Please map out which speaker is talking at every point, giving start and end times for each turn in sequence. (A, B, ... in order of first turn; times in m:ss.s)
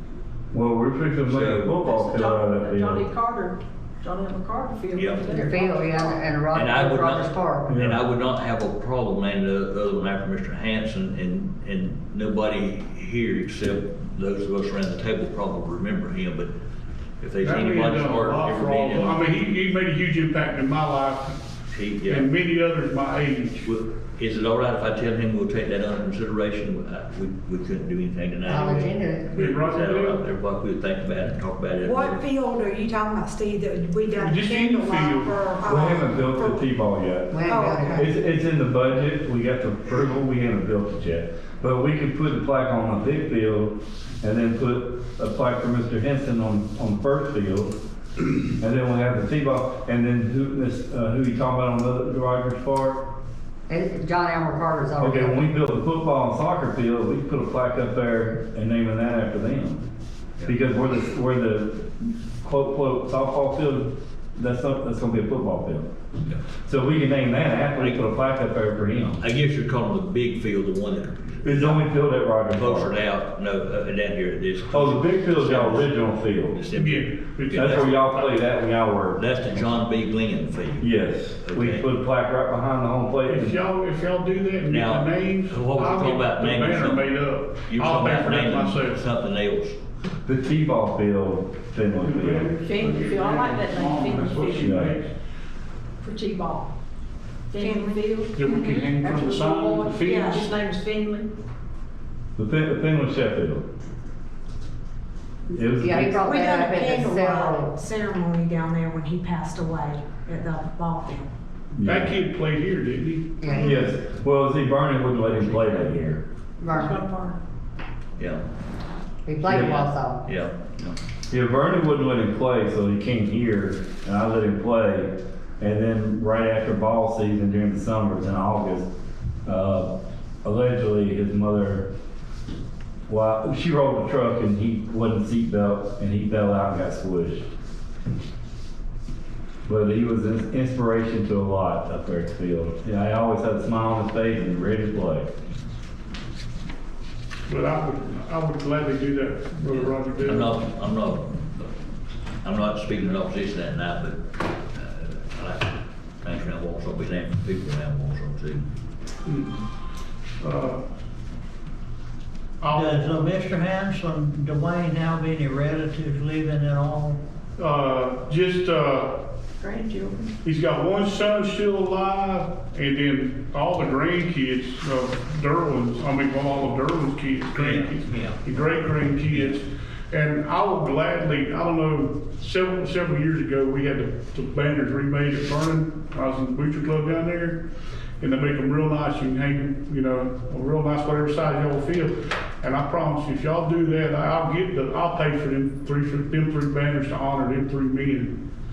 0:00.5-0:03.1 A
0:01.3-0:01.8 B
0:01.8-0:06.2 C
0:04.9-0:05.4 B
0:05.3-0:07.7 D
0:06.5-0:16.5 B
0:07.7-0:08.0 A
0:17.2-0:19.3 B
0:17.4-0:21.4 E
0:21.7-0:22.3 B
0:22.1-0:23.7 E
0:23.6-0:32.2 B
0:28.4-0:29.3 D
0:29.3-0:30.2 E
0:31.8-0:36.6 F
0:34.2-0:35.4 E
0:35.7-0:47.8 A
0:37.3-0:38.0 D
0:37.5-0:38.1 F
0:48.6-0:53.1 A
0:53.7-0:55.5 D
0:55.0-0:59.8 A
1:00.4-1:05.9 A
1:06.7-1:09.2 A
1:07.8-1:08.0 B
1:09.2-1:11.9 B
1:11.4-1:13.0 A
1:12.5-1:15.9 B
1:14.7-1:16.6 A
1:16.5-1:18.0 B
1:16.7-1:18.3 E
1:17.5-1:19.2 A
1:19.2-1:20.9 B
1:20.8-1:23.6 A
1:21.4-1:21.8 B
1:23.3-1:29.0 E
1:24.7-1:27.1 B
1:27.7-1:29.8 B
1:30.3-1:32.5 A
1:32.0-1:35.1 E
1:32.6-1:34.8 C
1:34.6-1:35.0 A
1:36.0-1:36.7 C
1:37.5-1:41.3 C
1:37.6-1:38.9 F
1:38.4-1:40.2 E
1:40.0-1:40.5 F
1:42.4-1:43.7 A
1:45.5-1:46.3 A
1:45.7-1:47.7 D
1:46.2-1:51.3 F
1:51.7-1:52.1 A
1:51.8-1:53.4 E
1:53.4-1:53.8 D
1:53.5-1:56.2 A
1:53.5-1:53.8 F
1:56.6-1:57.0 D
1:56.6-1:57.4 C
1:59.3-2:00.2 D
1:59.5-1:59.8 A
1:59.5-2:01.0 B
2:01.3-2:08.9 A
2:09.4-2:11.9 A
2:13.1-2:17.4 A
2:19.7-2:25.3 A
2:27.5-2:30.6 E
2:29.7-2:31.6 B
2:32.4-2:38.7 B
2:39.3-2:39.6 E
2:40.4-2:40.8 E
2:42.6-2:43.3 E
2:42.7-2:47.2 G
2:47.6-2:49.3 E
2:49.6-2:50.3 C
2:50.4-3:07.7 E
2:57.6-2:58.4 G
3:08.2-3:18.4 E